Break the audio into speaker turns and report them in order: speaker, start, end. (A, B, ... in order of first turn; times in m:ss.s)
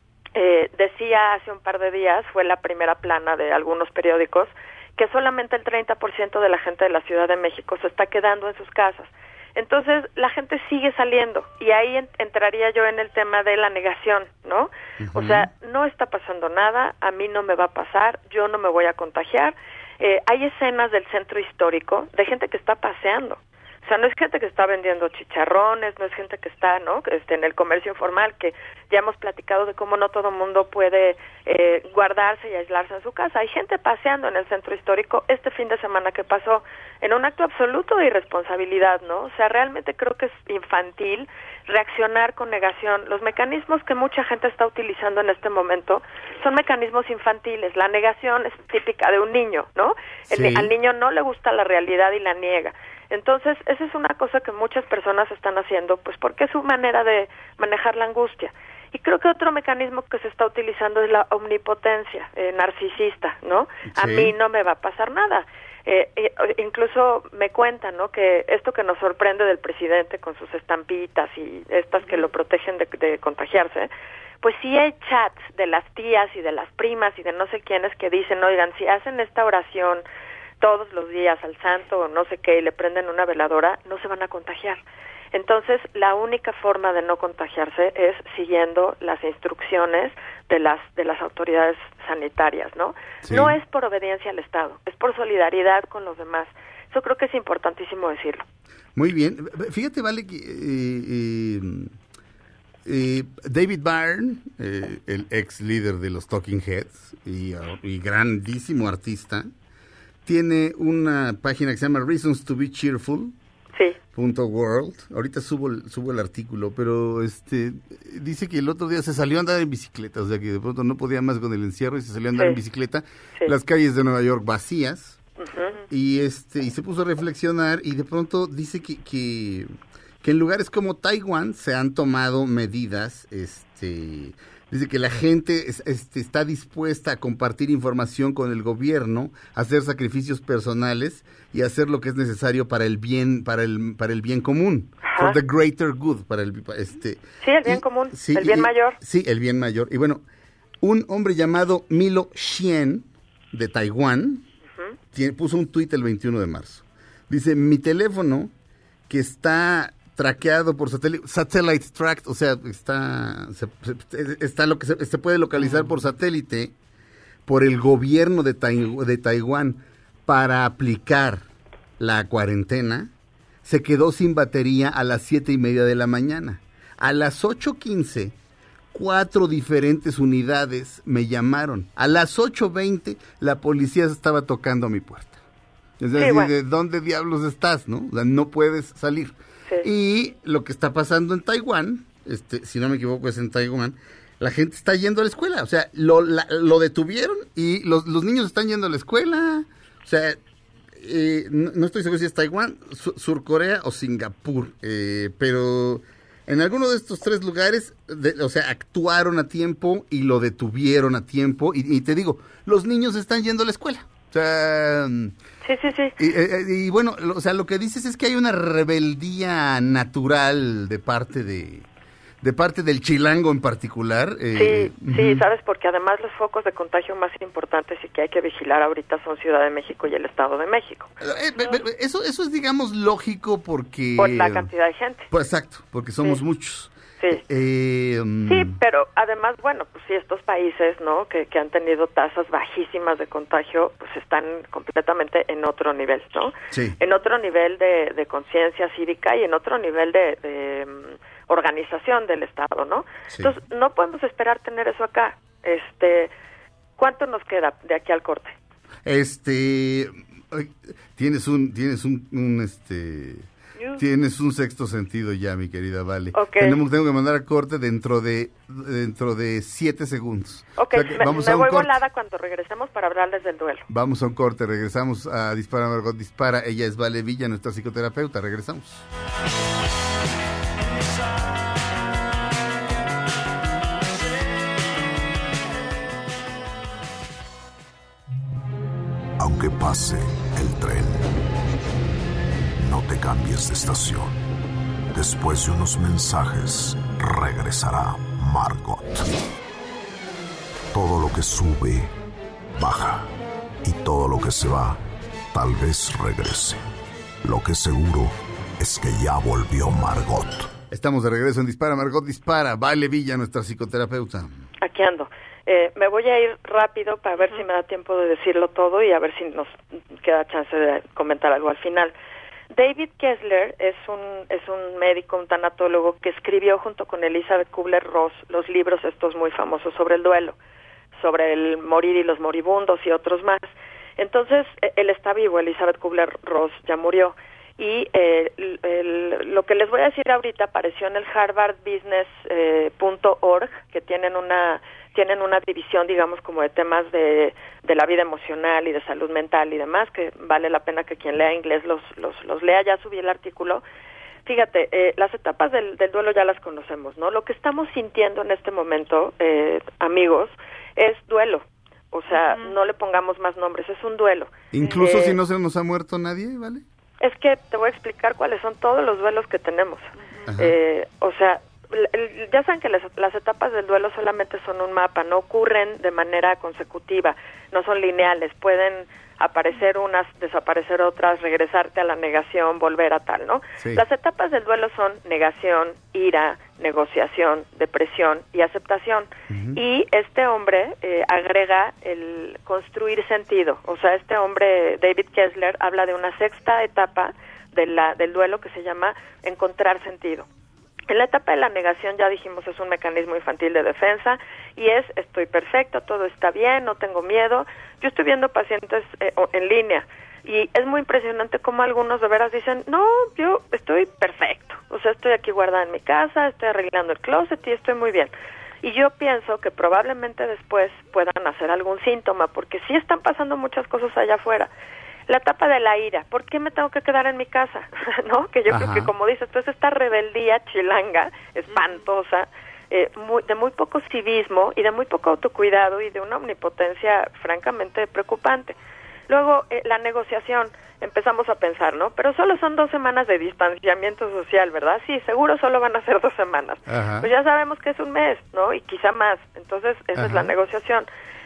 0:00.3-1:13.9 A
0:15.0-0:15.4 B
0:50.3-0:50.7 B
1:03.9-1:04.3 B
1:14.4-1:20.0 A
1:20.6-1:24.8 A
1:25.3-1:38.4 A
1:33.2-1:33.6 B
1:39.0-1:41.9 B
1:42.8-1:49.5 B
1:50.2-1:53.3 B
1:54.1-2:05.2 B
2:05.4-2:05.8 A
2:05.9-2:09.7 B
2:10.2-2:30.2 B
2:25.0-2:25.4 A
2:27.4-2:29.0 A
2:30.8-2:34.4 B
2:35.1-2:38.5 B
2:39.1-2:46.7 B
2:47.4-2:51.4 B
2:52.0-2:53.1 B
2:53.6-2:58.3 B
2:58.9-3:05.4 B
3:06.0-3:20.4 B
3:06.1-3:06.5 A
3:21.0-3:35.4 B
3:35.6-3:36.2 A
3:36.2-3:41.9 B
3:42.4-3:45.4 B
3:44.5-3:51.8 A
3:51.2-3:54.7 B
3:54.2-3:55.3 A
3:55.3-3:56.9 B
3:57.5-3:58.8 B
3:58.4-4:16.3 A
4:06.7-4:07.0 B
4:17.0-4:18.6 A
4:19.0-4:32.0 B
4:26.3-4:26.8 A
4:30.8-4:33.9 A
4:33.9-4:39.0 B
4:49.4-4:51.3 C
4:52.8-4:54.4 C
4:55.1-4:59.3 C
5:00.9-5:02.1 C
5:02.7-5:03.3 C
5:03.8-5:06.8 C
5:07.4-5:10.7 C
5:10.9-5:14.5 B
5:14.8-5:22.1 A
5:22.7-5:30.6 A
5:31.1-5:53.8 A
5:54.4-6:05.4 A
6:04.7-6:06.8 B
6:07.2-6:40.5 A
6:10.5-6:10.7 B
6:29.5-6:29.8 B
6:41.1-7:04.7 A
7:05.3-7:18.8 A
7:08.7-7:09.1 B
7:19.3-7:31.1 A
7:26.9-7:27.3 B
7:30.2-7:30.5 B